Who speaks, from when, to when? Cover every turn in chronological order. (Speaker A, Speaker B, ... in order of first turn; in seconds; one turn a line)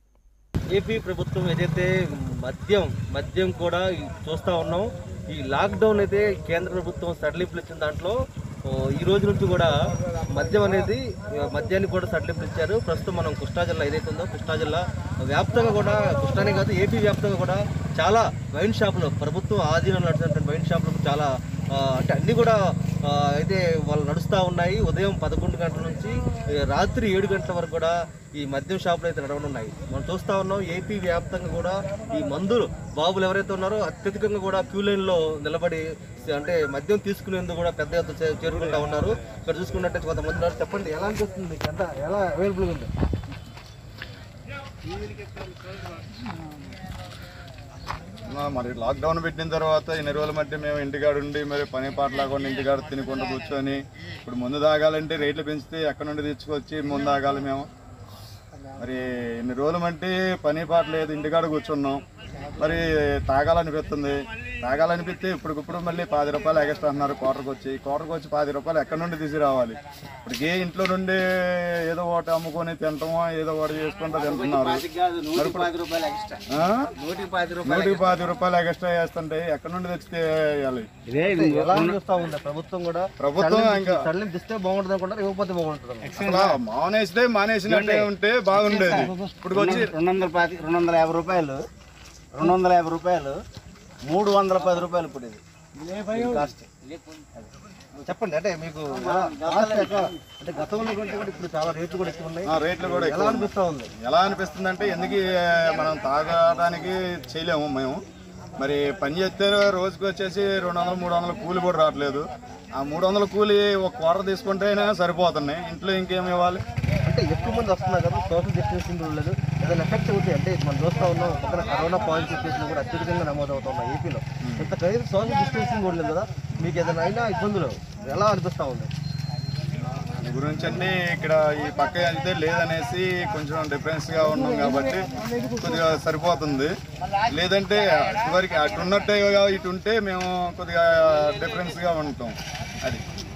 Speaker A: 0.7-9.7
Speaker A: 10.3-42.9
Speaker B: 48.3-57.7
Speaker B: 58.8-62.0
Speaker B: 62.6-75.7
Speaker C: 74.2-76.4
Speaker B: 76.5-76.9
Speaker C: 77.0-78.2
Speaker B: 77.6-80.9
Speaker C: 81.1-81.9
Speaker A: 81.2-86.2
Speaker B: 83.2-84.1
Speaker C: 86.1-86.6
Speaker B: 86.2-89.9
Speaker C: 87.7-91.6
Speaker C: 92.4-93.3
Speaker C: 94.1-97.5
Speaker A: 98.0-103.9
Speaker C: 99.1-100.0
Speaker B: 102.5-108.0
Speaker B: 108.6-116.6
Speaker A: 117.0-128.9
Speaker B: 124.4-124.7
Speaker B: 130.2-136.7
Speaker B: 137.3-143.0